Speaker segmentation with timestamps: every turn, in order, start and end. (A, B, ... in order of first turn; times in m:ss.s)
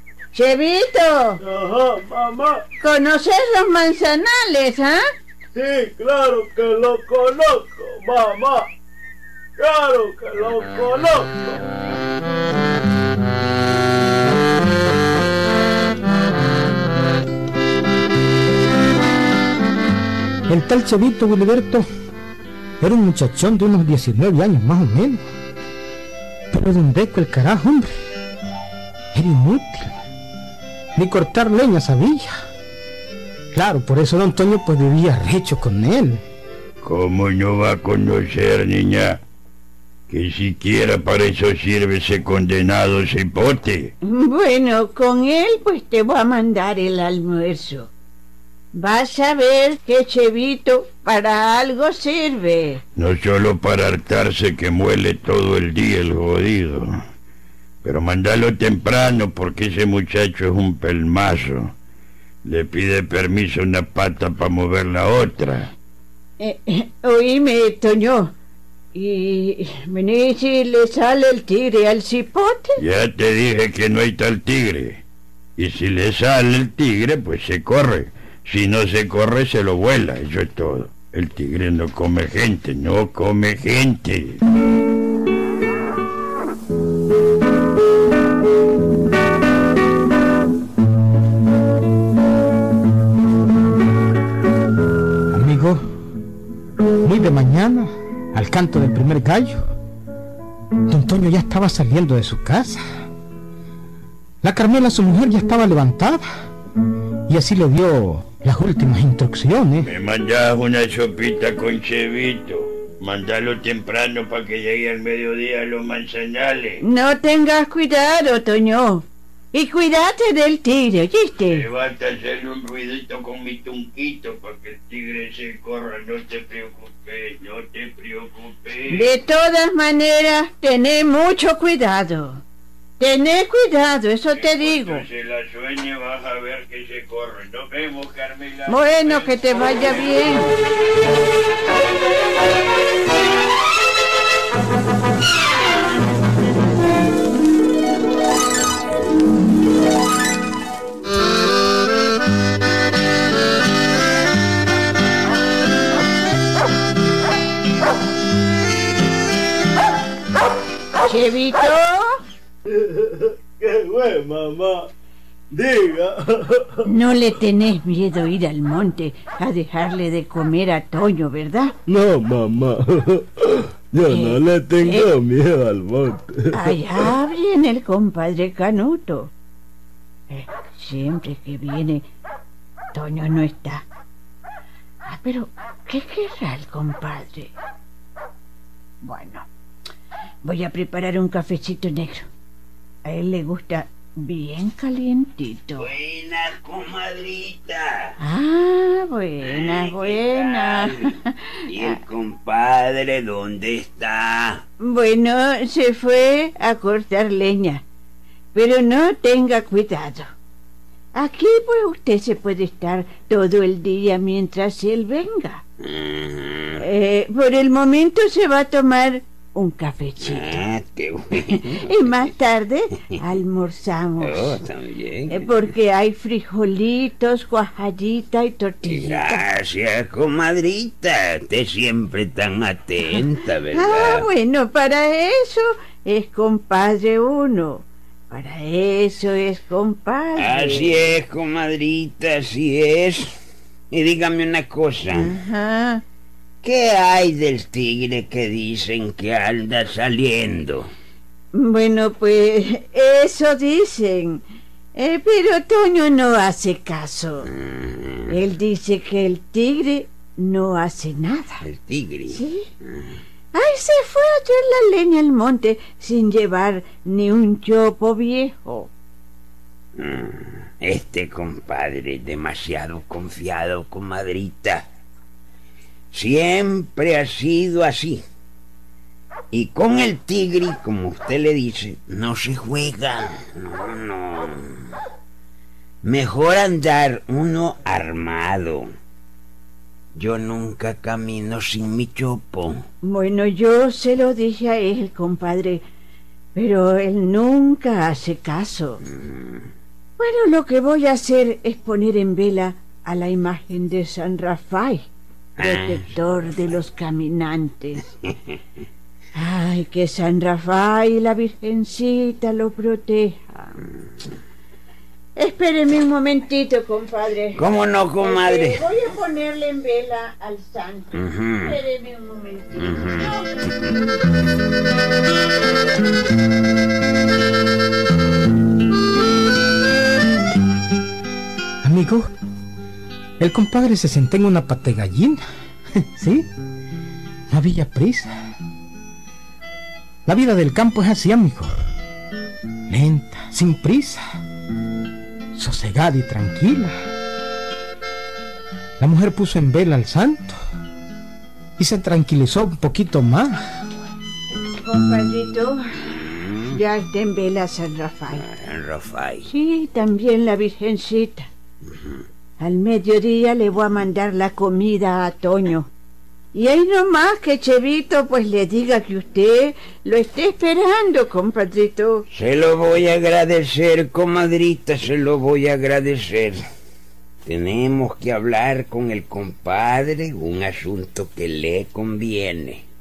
0:00.3-0:01.4 A
0:01.4-0:02.6 B
0:02.8-0:05.0 A
0:05.5-0:08.7 B
0:09.6-0:11.6 B
0:20.5-0:21.9 C
0:22.8-0:25.2 C
0:26.5-0:27.9 C
0:29.1-0:29.9 C
0:31.0-0:32.3 C
0:33.5-0:36.2 C
0:36.8-0:39.2 D
0:40.1-0:43.9 D
0:44.1-0:47.9 A
0:48.8-0:52.8 A
0:53.0-0:56.9 D
0:57.8-1:01.7 D
1:02.4-1:05.7 D
1:06.4-1:08.3 A
1:09.0-1:12.8 A
1:12.8-1:15.0 D
1:15.6-1:24.4 D
1:35.3-1:35.8 C
1:37.0-1:39.6 C
1:40.9-1:42.8 C
1:44.4-1:46.2 C
1:47.3-1:49.9 C
1:49.8-1:56.8 D
1:56.8-2:01.6 A
2:01.5-2:09.1 D
2:08.9-2:12.4 A
2:13.0-2:15.0 A
2:14.3-2:20.2 D
2:18.7-2:20.5 A
2:41.0-2:42.2 A
2:42.7-2:44.9 B
2:45.5-2:46.8 B
2:46.8-2:51.7 A
2:51.9-2:57.0 B
2:54.1-2:55.1 A
2:56.5-2:59.3 A
3:00.3-3:02.0 A
3:02.9-3:03.8 A
3:05.1-3:07.5 A
3:09.0-3:09.4 A
3:10.4-3:12.3 A
3:13.0-3:15.9 A
3:15.8-3:18.1 E
3:18.2-3:21.9 A
3:19.4-3:21.1 E
3:21.7-3:24.6 E
3:24.8-3:27.8 A
3:28.5-3:30.2 A
3:31.2-3:35.6 A
3:35.8-3:36.8 E
3:36.8-3:40.6 A
3:40.2-3:41.8 E
3:41.5-3:44.6 A
3:44.2-3:45.5 E
3:45.3-3:49.4 A
3:48.9-3:54.2 E
3:53.7-4:00.9 A
4:00.4-4:03.3 E
4:03.9-4:05.3 E
4:05.1-4:06.0 A
4:06.6-4:10.9 E
4:11.6-4:14.4 A
4:15.0-4:17.5 A
4:17.6-4:18.3 E
4:18.3-4:21.6 A
4:21.6-4:22.4 E
4:22.3-4:22.6 A
4:23.5-4:28.9 A
4:30.0-4:34.8 E
4:36.1-4:38.2 E
4:39.5-4:44.6 E
4:46.0-4:48.8 E
4:50.1-4:52.8 E
4:53.0-4:55.8 A
4:56.5-4:59.0 A
5:00.2-5:05.1 A
5:05.6-5:06.0 E
5:05.6-5:08.0 A
5:09.3-5:13.7 A
5:15.4-5:17.6 A
5:17.6-5:18.8 E
5:18.2-5:23.4 A
5:21.1-5:21.8 E
5:22.8-5:23.3 E
5:31.8-5:32.3 C
5:33.4-5:35.4 C
5:36.0-5:36.5 C
5:37.5-5:38.3 C
5:40.2-5:41.7 C
5:42.9-5:44.2 C
5:45.6-5:46.9 C
5:49.0-5:50.6 C
5:51.8-5:53.6 C
5:54.8-5:55.8 A
5:56.2-5:56.6 E
5:56.7-5:58.4 A
5:58.4-5:59.4 E
5:59.5-6:01.4 A
6:02.6-6:05.9 A
6:06.5-6:12.2 A
6:12.3-6:16.6 E
6:17.4-6:22.8 E